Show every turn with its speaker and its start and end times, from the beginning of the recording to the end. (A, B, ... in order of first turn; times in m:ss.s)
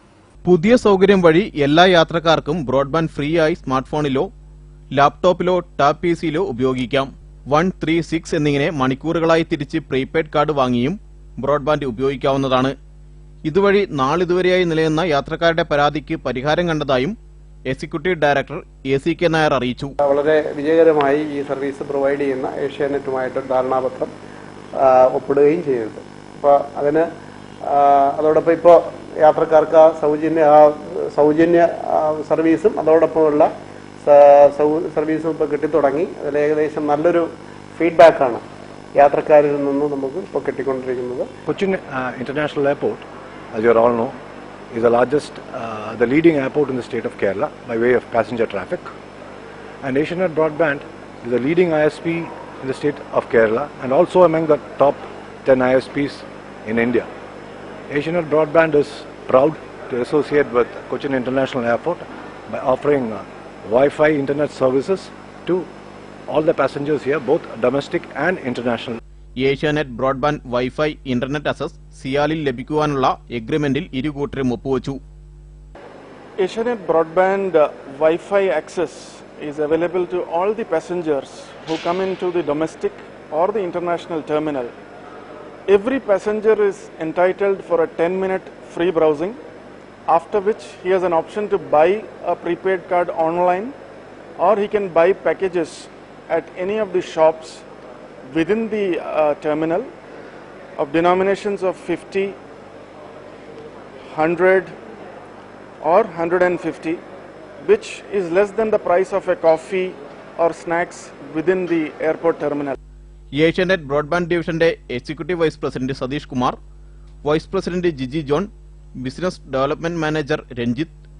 0:00.4-0:04.3 A
0:04.9-0:12.7 A
0:13.4-0:17.2 A
0:17.7-0:19.9 A
0:20.0-0:24.1 B
0:24.8-0:27.1 B
0:27.7-0:33.5 B
0:34.0-0:38.4 B
0:38.9-0:41.3 B
0:41.5-0:44.2 C
0:44.7-0:48.9 C
0:49.8-0:57.1 C
0:57.9-1:05.7 C
1:06.3-1:09.0 C
1:09.4-1:15.0 A
1:16.4-1:24.7 D
1:25.7-1:29.4 D
1:30.0-1:33.7 D
1:34.4-1:37.6 D
1:38.3-1:39.9 D
1:40.8-1:42.4 D
1:44.1-1:44.7 D
1:45.8-1:47.0 D
1:47.6-1:52.8 D
1:53.4-1:56.6 A
1:57.2-2:00.9 A